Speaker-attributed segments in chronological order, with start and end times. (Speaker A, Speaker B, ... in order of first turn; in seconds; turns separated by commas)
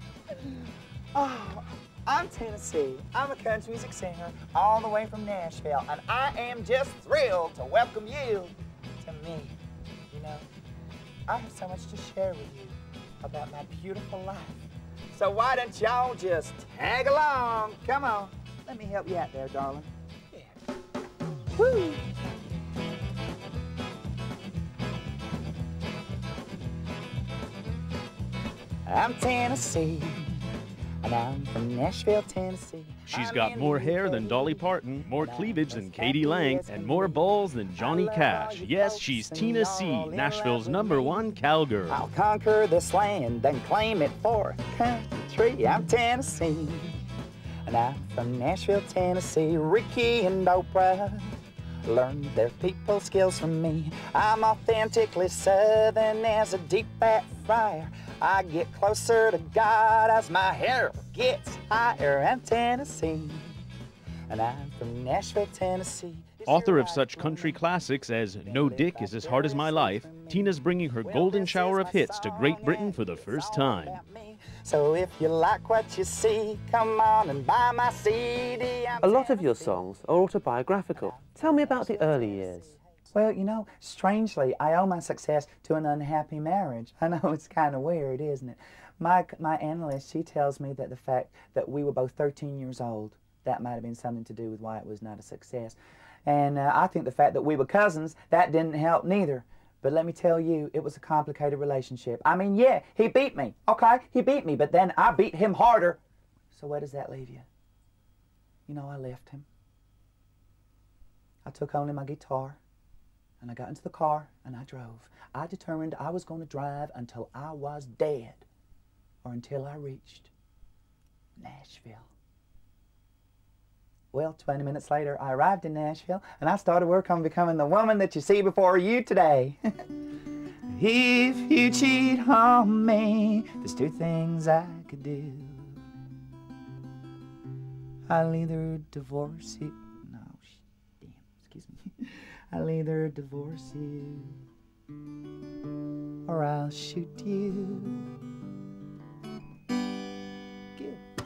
Speaker A: 0.4-9.6, Speaker A: 10.1-10.5, Speaker A: 11.3-20.6, Speaker A: 21.6-22.2, Speaker A: 28.9-30.3, Speaker A: 31.0-37.2, Speaker B: 33.1-42.0, Speaker A: 37.8-47.0, Speaker A: 47.7-63.5, Speaker A: 64.3-67.6, Speaker B: 66.5-74.0, Speaker A: 68.4-79.8, Speaker C: 79.0-82.8, Speaker A: 80.9-106.0, Speaker A: 106.5-107.5, Speaker A: 108.7-109.5, Speaker A: 111.4-112.6, Speaker A: 113.4-118.4, Speaker A: 119.2-120.3, Speaker A: 121.4-122.1, Speaker A: 124.1-129.6, Speaker A: 130.7-135.8, Speaker A: 138.1-144.4, Speaker A: 146.3-148.1, Speaker A: 150.8-151.1